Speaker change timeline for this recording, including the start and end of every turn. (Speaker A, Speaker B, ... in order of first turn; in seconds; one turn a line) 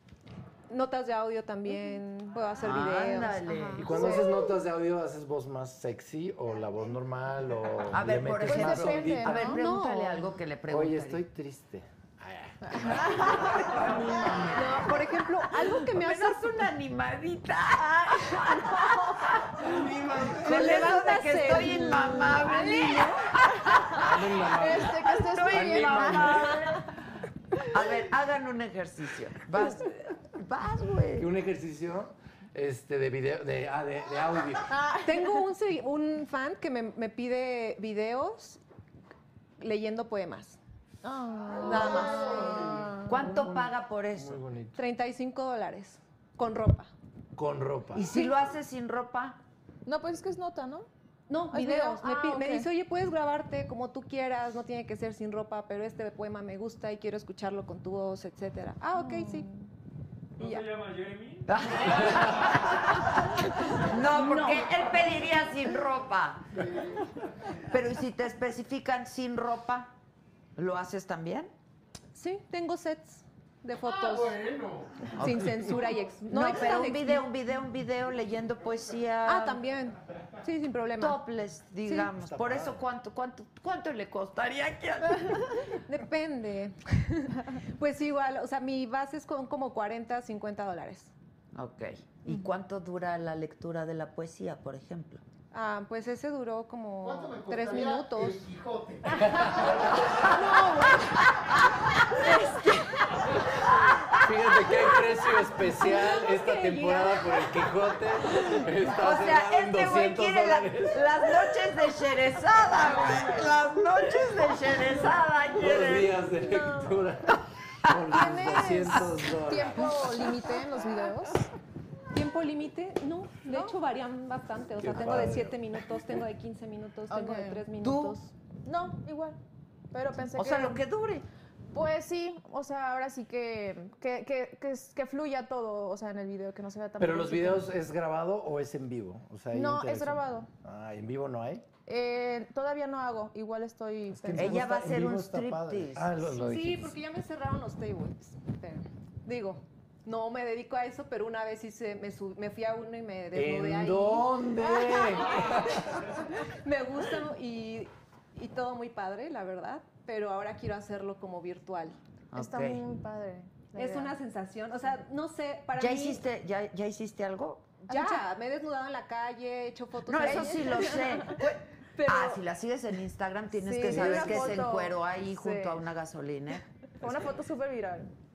Speaker A: 0.7-4.2
Speaker B: 1.7-2.0
Speaker C: 2.6-4.2
Speaker B: 3.6-4.5
Speaker D: 3.8-9.5
Speaker C: 7.9-11.2
Speaker B: 8.5-9.7
Speaker A: 9.4-10.3
Speaker D: 10.7-14.9
Speaker B: 12.6-13.7
Speaker C: 13.4-14.0
Speaker A: 14.5-16.7
Speaker C: 15.7-24.0
Speaker B: 18.7-19.1
Speaker D: 19.8-20.6
Speaker A: 20.3-23.6
Speaker B: 21.8-22.7
Speaker D: 23.9-26.7
Speaker B: 24.5-26.4
Speaker C: 24.7-27.0
Speaker C: 27.7-31.3
Speaker D: 31.2-34.7
Speaker B: 34.7-35.5
Speaker A: 35.0-38.6
Speaker A: 39.6-40.6
Speaker B: 41.0-43.3
Speaker E: 41.5-42.9
Speaker A: 41.6-42.6
Speaker D: 42.4-44.8
Speaker C: 43.0-44.4
Speaker A: 44.7-46.9
Speaker D: 47.3-48.2
Speaker C: 47.9-49.4
Speaker B: 49.9-50.9
Speaker A: 51.3-59.5
Speaker B: 51.5-52.7
Speaker B: 58.9-59.7
Speaker F: 60.4-62.6
Speaker A: 60.4-60.7
Speaker C: 61.5-66.4
Speaker A: 64.0-64.8
Speaker E: 66.5-67.1
Speaker C: 67.7-69.9
Speaker C: 70.6-71.5
Speaker A: 72.1-74.4
Speaker E: 73.8-75.9
Speaker A: 75.2-77.2
Speaker C: 76.3-79.6
Speaker A: 79.2-81.2
Speaker C: 81.0-85.5
Speaker A: 81.8-82.1
Speaker D: 82.1-82.8
Speaker A: 85.8-91.1
Speaker C: 91.5-95.2
Speaker A: 95.5-98.4
Speaker E: 97.0-100.0
Speaker D: 99.2-100.1
Speaker A: 99.3-99.6
Speaker A: 100.1-101.6
Speaker C: 102.1-102.5
Speaker A: 102.1-103.4
Speaker C: 103.6-105.0
Speaker D: 104.2-111.4
Speaker A: 105.4-108.5
Speaker C: 108.8-116.3
Speaker D: 115.5-120.4
Speaker A: 116.4-116.9
Speaker C: 117.9-118.1
Speaker B: 118.1-121.5
Speaker A: 122.1-128.3
Speaker B: 123.5-123.8
Speaker D: 124.8-125.6
Speaker B: 127.1-127.7
Speaker C: 127.8-128.2
Speaker B: 128.6-129.4
Speaker B: 129.9-130.8
Speaker C: 130.3-131.2
Speaker B: 131.7-137.7
Speaker D: 137.0-141.7
Speaker B: 139.5-140.5
Speaker B: 141.8-144.7
Speaker D: 144.1-146.9
Speaker C: 144.3-146.4
Speaker A: 146.3-162.0
Speaker D: 153.3-156.0
Speaker B: 154.6-155.0
Speaker C: 162.3-162.8
Speaker B: 162.3-164.2
Speaker A: 163.7-166.2
Speaker C: 165.8-167.8
Speaker A: 167.8-172.4
Speaker B: 167.9-168.2
Speaker C: 170.1-177.2
Speaker B: 170.2-171.3
Speaker B: 173.6-175.8
Speaker D: 173.9-174.6
Speaker A: 173.9-174.4
Speaker B: 177.0-178.1
Speaker D: 177.0-177.3